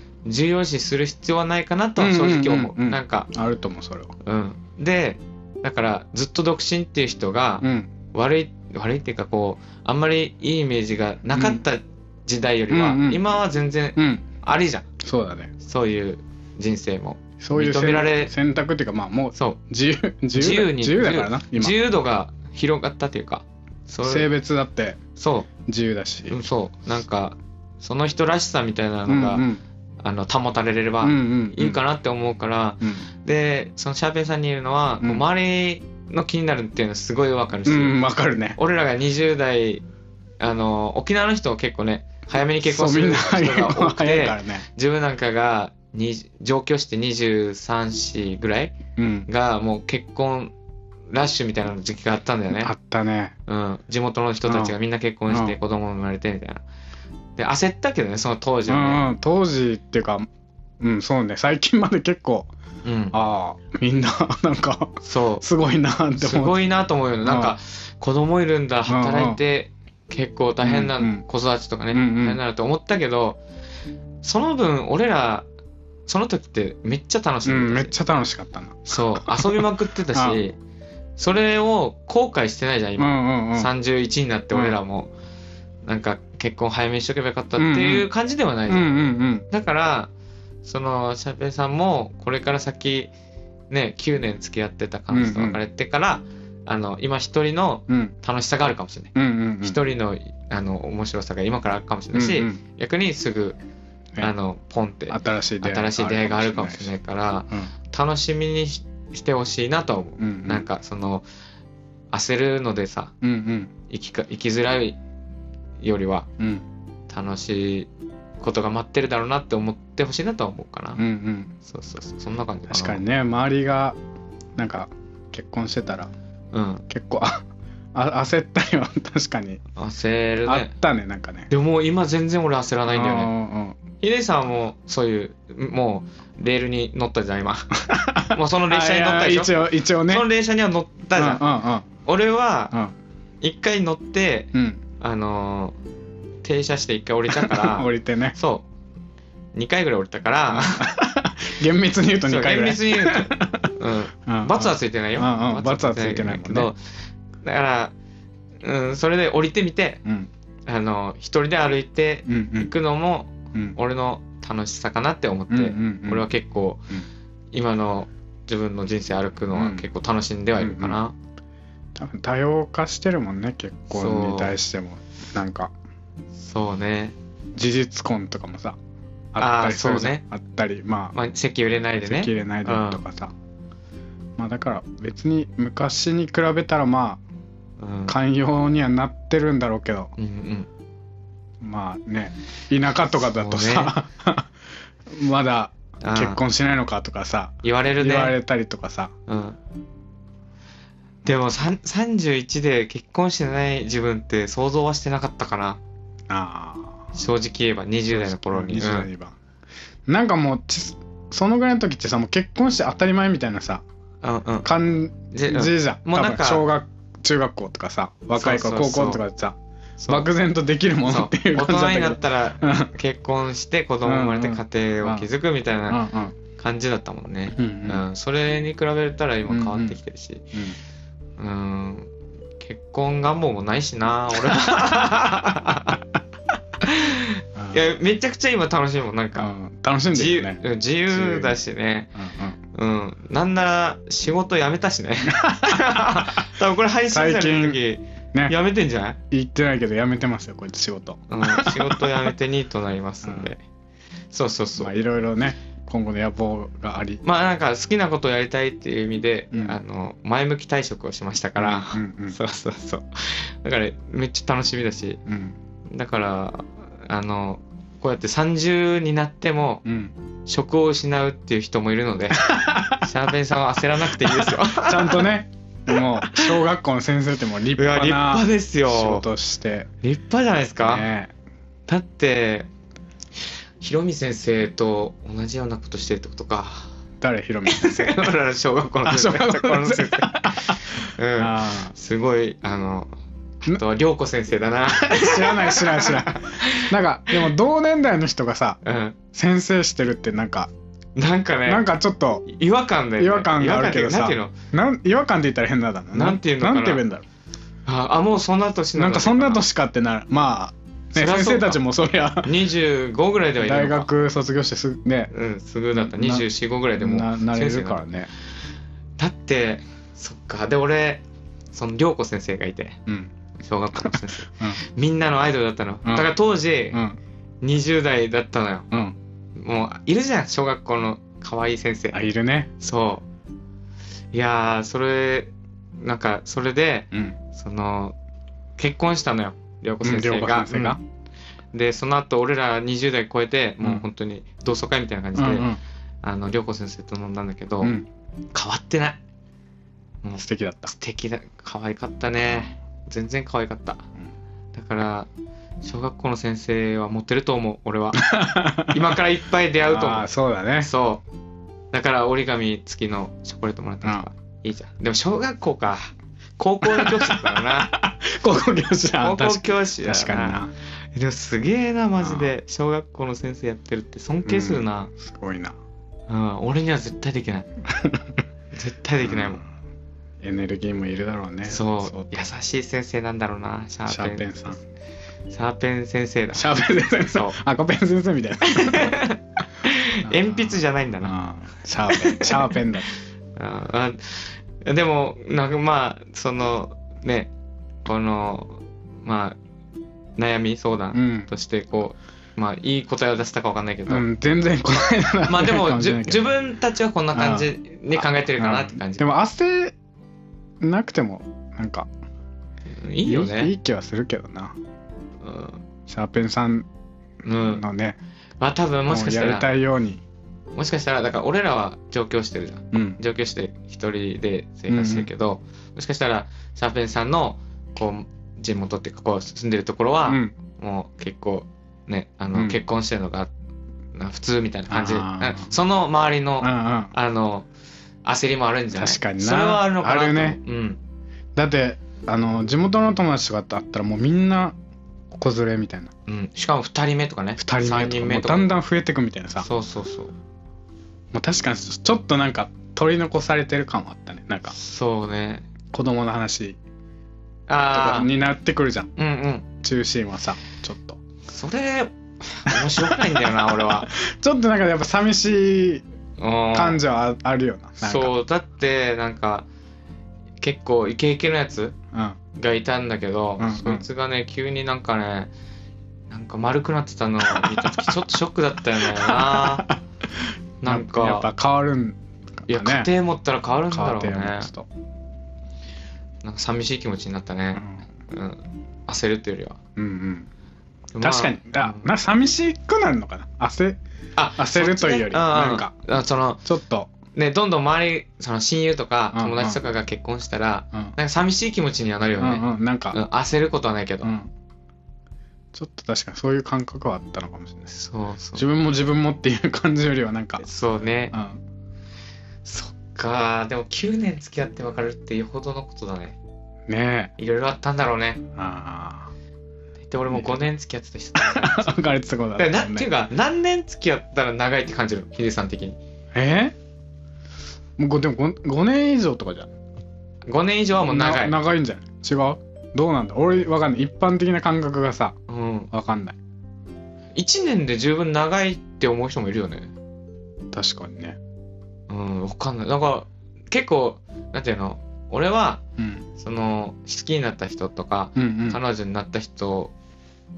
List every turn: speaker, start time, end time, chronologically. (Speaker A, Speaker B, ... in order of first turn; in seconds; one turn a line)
Speaker A: 0.2-3.3
Speaker B: 2.0-4.1
Speaker A: 4.2-14.9
Speaker B: 7.6-7.9
Speaker B: 11.3-11.6
Speaker B: 12.7-13.2
Speaker B: 14.0-14.2
Speaker B: 15.0-15.5
Speaker A: 15.6-18.3
Speaker B: 17.4-21.8
Speaker A: 20.3-24.3
Speaker B: 24.0-25.0
Speaker A: 25.2-25.5
Speaker B: 25.6-26.4
Speaker A: 26.3-29.4
Speaker B: 29.1-29.6
Speaker A: 30.0-38.0
Speaker B: 31.0-31.8
Speaker B: 37.6-38.6
Speaker A: 38.6-39.8
Speaker A: 40.4-50.5
Speaker B: 42.6-44.6
Speaker B: 49.0-49.3
Speaker A: 51.1-52.7
Speaker B: 52.5-53.4
Speaker A: 53.5-56.6
Speaker B: 54.5-54.7
Speaker B: 55.3-55.5
Speaker A: 57.4-59.0
Speaker B: 58.7-60.3
Speaker B: 60.8-62.5
Speaker A: 62.8-63.2
Speaker B: 63.1-66.6
Speaker A: 65.0-65.4
Speaker A: 66.2-73.4
Speaker B: 67.2-67.5
Speaker B: 68.9-69.4
Speaker B: 70.6-71.2
Speaker B: 71.9-72.4
Speaker A: 74.2-75.5
Speaker A: 76.1-77.9
Speaker B: 77.4-80.4
Speaker A: 78.9-80.5
Speaker A: 81.2-85.1
Speaker B: 83.0-83.7
Speaker B: 84.5-84.8
Speaker A: 85.8-88.9
Speaker B: 87.6-88.1
Speaker B: 88.7-89.5
Speaker A: 89.5-90.1
Speaker A: 90.6-93.1
Speaker A: 93.7-103.6
Speaker B: 95.1-95.6
Speaker B: 97.9-98.1
Speaker B: 99.1-99.8
Speaker B: 102.1-102.6
Speaker A: 104.2-111.2
Speaker B: 105.1-106.9
Speaker B: 110.2-110.7
Speaker A: 112.1-113.1
Speaker B: 113.2-113.7
Speaker A: 113.9-115.0
Speaker A: 115.8-116.3
Speaker B: 116.4-116.6
Speaker A: 117.1-117.9
Speaker A: 118.4-121.0
Speaker B: 121.0-121.5
Speaker A: 121.7-123.0
Speaker B: 122.7-124.0
Speaker B: 124.6-126.1
Speaker A: 126.5-126.8
Speaker B: 126.9-129.6
Speaker A: 129.8-130.7
Speaker B: 130.4-131.5
Speaker A: 131.5-133.3
Speaker B: 132.9-133.8
Speaker A: 134.0-141.4
Speaker B: 137.9-140.3
Speaker B: 141.2-141.8
Speaker A: 142.0-142.8
Speaker A: 143.4-145.8
Speaker B: 144.5-144.8
Speaker A: 146.4-148.7
Speaker B: 147.3-148.3
Speaker A: 149.5-150.9
Speaker B: 150.5-153.7
Speaker A: 152.2-156.8
Speaker B: 154.3-156.7
Speaker A: 157.4-157.9
Speaker A: 158.6-160.0
Speaker A: 160.7-166.8
Speaker B: 162.3-162.7
Speaker B: 165.5-166.2
Speaker A: 167.5-171.1
Speaker B: 169.5-169.8
Speaker B: 170.6-171.0
Speaker B: 171.9-175.7
Speaker A: 173.9-174.5
Speaker A: 176.4-177.2
Speaker B: 177.6-178.8
Speaker B: 179.3-181.2
Speaker A: 179.4-180.2
Speaker A: 181.1-183.0
Speaker B: 182.0-183.3
Speaker B: 184.4-187.2
Speaker A: 187.8-188.1
Speaker B: 188.1-190.1
Speaker A: 190.2-190.7
Speaker B: 191.6-194.5
Speaker A: 193.1-193.9
Speaker B: 195.1-199.1
Speaker A: 196.0-196.4
Speaker A: 197.6-198.3
Speaker A: 199.3-199.6
Speaker A: 201.2-205.8
Speaker B: 206.3-207.1
Speaker A: 207.1-209.1
Speaker B: 208.1-209.3
Speaker B: 210.1-213.8
Speaker A: 214.2-214.7
Speaker B: 214.6-219.6
Speaker A: 215.3-216.7
Speaker A: 218.4-219.2
Speaker A: 220.0-220.3
Speaker B: 220.1-222.9
Speaker A: 221.1-226.0
Speaker B: 224.0-225.3
Speaker B: 225.9-226.3
Speaker A: 226.6-230.5
Speaker B: 227.6-228.0
Speaker B: 229.5-230.0
Speaker A: 231.4-236.0
Speaker A: 236.8-239.5
Speaker B: 237.6-237.8
Speaker B: 239.4-240.6
Speaker A: 240.1-242.1
Speaker B: 241.1-241.5
Speaker B: 242.2-242.6
Speaker A: 242.7-249.2
Speaker B: 245.3-245.9
Speaker B: 247.1-247.8
Speaker B: 249.3-252.1
Speaker A: 251.3-253.6
Speaker B: 253.2-253.5
Speaker A: 254.3-254.9
Speaker B: 254.8-257.2
Speaker A: 257.2-265.2
Speaker B: 259.5-259.8
Speaker B: 261.6-262.4
Speaker B: 265.3-265.6
Speaker A: 265.9-269.8
Speaker B: 269.8-270.1
Speaker A: 270.4-275.3
Speaker B: 272.4-273.0
Speaker B: 274.3-279.9
Speaker A: 275.9-276.6
Speaker A: 277.8-279.2
Speaker A: 280.0-281.1
Speaker B: 280.8-281.3
Speaker A: 281.9-282.7
Speaker A: 283.8-286.9
Speaker B: 287.2-288.3
Speaker A: 287.6-293.1
Speaker B: 289.1-291.9
Speaker A: 293.6-297.4
Speaker B: 295.1-298.8
Speaker A: 298.8-299.2
Speaker B: 299.3-300.7
Speaker A: 301.1-301.9
Speaker B: 301.7-302.4
Speaker A: 302.4-304.5
Speaker B: 303.2-307.2
Speaker A: 306.1-307.0
Speaker A: 307.9-309.6
Speaker B: 308.9-312.5
Speaker A: 311.1-311.8
Speaker A: 312.4-314.1
Speaker B: 313.6-315.3
Speaker A: 315.3-318.0
Speaker B: 315.9-316.5
Speaker B: 317.0-318.3
Speaker A: 319.2-321.2
Speaker A: 321.7-323.0
Speaker B: 323.1-323.3
Speaker A: 323.6-327.0
Speaker B: 324.0-324.8
Speaker B: 326.0-326.3
Speaker B: 326.9-327.2
Speaker A: 327.6-328.9
Speaker B: 328.9-329.1
Speaker A: 329.6-332.2
Speaker B: 332.1-332.7
Speaker A: 332.8-333.2
Speaker A: 334.3-338.1
Speaker A: 338.8-341.0
Speaker B: 340.0-341.0
Speaker A: 341.7-345.7
Speaker B: 345.4-345.8
Speaker A: 346.2-347.9
Speaker A: 348.5-349.2
Speaker A: 350.2-354.0
Speaker B: 350.4-350.9
Speaker A: 354.7-355.3
Speaker A: 355.8-360.2
Speaker B: 358.2-359.1
Speaker B: 359.8-360.9
Speaker A: 360.8-361.2
Speaker A: 361.9-367.9
Speaker B: 366.8-370.7
Speaker A: 369.2-370.6
Speaker A: 371.1-375.1
Speaker B: 372.2-372.5
Speaker B: 374.4-375.7
Speaker A: 376.3-377.7
Speaker B: 377.9-378.3
Speaker A: 378.7-379.6
Speaker B: 379.2-379.6
Speaker B: 380.4-382.4
Speaker A: 381.6-384.8
Speaker B: 384.1-384.8
Speaker A: 385.5-386.7
Speaker B: 386.5-389.2
Speaker A: 387.2-387.6
Speaker A: 388.6-391.3
Speaker B: 390.2-393.1
Speaker A: 392.1-392.8
Speaker A: 393.6-397.5
Speaker A: 398.0-399.6
Speaker A: 400.4-404.2
Speaker B: 401.1-401.5
Speaker B: 404.1-406.5
Speaker A: 405.4-409.3
Speaker B: 407.3-409.9
Speaker B: 410.8-412.1
Speaker A: 413.0-413.7
Speaker B: 413.2-414.7
Speaker A: 415.4-415.8
Speaker B: 416.1-416.9
Speaker A: 417.4-417.8
Speaker B: 417.6-418.2
Speaker A: 418.6-419.7
Speaker B: 419.1-420.2
Speaker A: 420.7-433.5
Speaker B: 422.9-423.2
Speaker B: 424.9-425.3
Speaker B: 430.2-430.5
Speaker A: 434.1-437.7
Speaker B: 434.9-435.7
Speaker B: 436.6-437.1
Speaker A: 438.2-441.0
Speaker B: 438.9-440.6
Speaker B: 441.6-444.8
Speaker B: 445.3-446.1
Speaker A: 446.3-448.7
Speaker B: 447.6-449.7
Speaker A: 449.6-450.3
Speaker B: 451.3-454.7
Speaker A: 454.7-455.6
Speaker B: 455.9-456.8
Speaker A: 457.7-458.3
Speaker B: 457.9-459.1
Speaker A: 459.1-459.6
Speaker B: 459.8-461.2
Speaker A: 461.5-464.1
Speaker B: 462.7-466.0
Speaker A: 466.4-467.0
Speaker B: 466.7-468.3
Speaker A: 468.0-469.6
Speaker A: 470.6-471.9
Speaker A: 472.6-475.5
Speaker B: 473.6-474.0
Speaker A: 476.3-479.9
Speaker B: 477.4-478.1
Speaker B: 479.0-480.0
Speaker A: 480.8-481.5
Speaker B: 480.9-483.1
Speaker A: 482.7-484.7
Speaker B: 483.9-484.9
Speaker A: 486.4-489.8
Speaker B: 487.7-488.0
Speaker B: 489.9-490.5
Speaker A: 491.1-492.1
Speaker B: 491.2-494.0
Speaker A: 494.4-496.6
Speaker B: 494.6-495.9
Speaker B: 496.6-497.1
Speaker A: 497.3-504.3
Speaker B: 499.3-499.8
Speaker B: 502.4-503.2
Speaker B: 504.2-504.5
Speaker B: 505.7-507.9
Speaker A: 507.9-508.6
Speaker B: 508.5-510.6
Speaker A: 510.6-511.3
Speaker B: 511.3-511.6
Speaker A: 512.6-516.4
Speaker B: 516.9-517.3
Speaker A: 517.4-518.4
Speaker B: 518.5-519.3
Speaker A: 520.1-522.0
Speaker B: 520.3-520.6
Speaker B: 521.4-523.1
Speaker A: 522.6-526.0
Speaker B: 526.3-526.7
Speaker B: 528.0-529.7
Speaker A: 530.5-531.6
Speaker B: 531.1-535.4
Speaker A: 535.5-535.9
Speaker B: 535.9-536.4
Speaker A: 537.3-539.9
Speaker B: 540.7-541.4
Speaker A: 542.1-545.8
Speaker B: 546.0-546.2
Speaker A: 546.4-549.9
Speaker B: 548.4-548.8